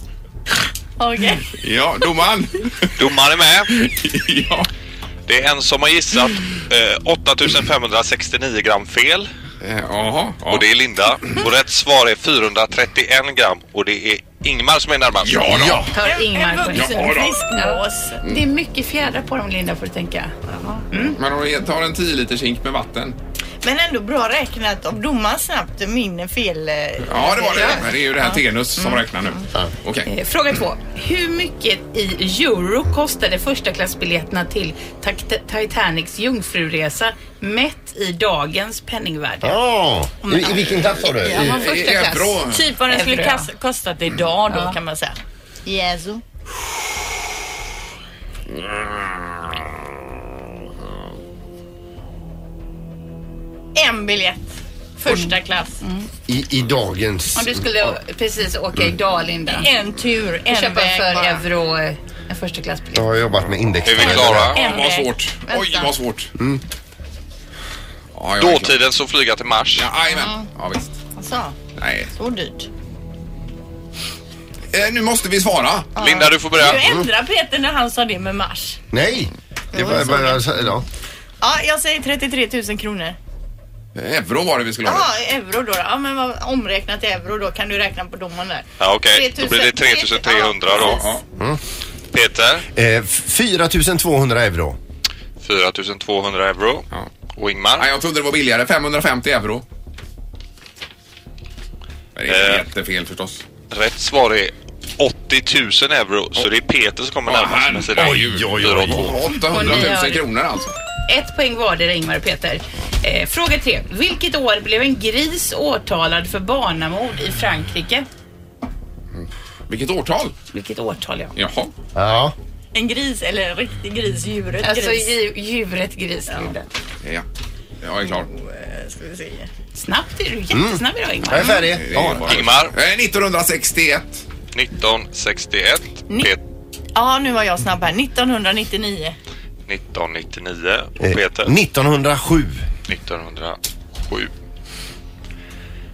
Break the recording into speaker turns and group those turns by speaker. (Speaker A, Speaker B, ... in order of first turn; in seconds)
Speaker A: 1.0-1.5, 16.0-18.2, 20.5-21.1, 23.6-29.4, 40.2-46.2, 53.7-54.4, 55.0-55.8, 59.5-61.5, 64.5-65.9, 70.1-70.5, 71.2-71.5, 72.1-72.7, 76.0-78.8, 79.7-80.4, 81.4-83.2, 84.8-91.1, 122.7-125.1, 128.1-129.5, 136.1-136.3, 136.9-139.1
Speaker B: 1.5-2.9, 3.7-4.7, 9.6-10.7, 15.2-15.9, 16.7-17.4, 21.1-23.2, 27.0-30.1, 41.3-42.7, 48.5-49.1, 64.5-66.3, 68.1-68.8, 69.8-71.0, 71.8-72.1, 74.7-76.0, 83.9-85.1, 90.7-91.2, 97.8-99.6, 102.2-103.4, 107.2-110.8, 119.1-120.3, 121.3-121.7, 127.8-128.3, 131.5-134.2
Speaker C: 3.0-3.7, 5.3-9.3, 10.5-15.7, 63.8-64.6, 68.4-69.9, 76.0-76.8, 88.8-91.0, 92.1-92.7, 95.4-97.9, 102.3-102.6, 103.7-109.3, 132.2-132.7, 134.5-136.4, 139.7-141.5, 142.8-144.3
Speaker D: 15.5-15.9, 39.4-41.5, 56.3-57.8, 62.9-64.5, 76.7-77.1, 78.9-80.8, 92.7-94.8, 107.9-109.2, 121.9-122.3, 130.5-132.4, 141.0-142.7
Speaker E: 15.9-20.3, 30.0-39.6, 41.2-43.5, 44.5-44.8, 55.1-56.0, 57.3-59.7, 60.5-63.1, 109.5-110.2, 111.1-118.0, 120.5-121.3, 124.6-126.7, 129.7-131.6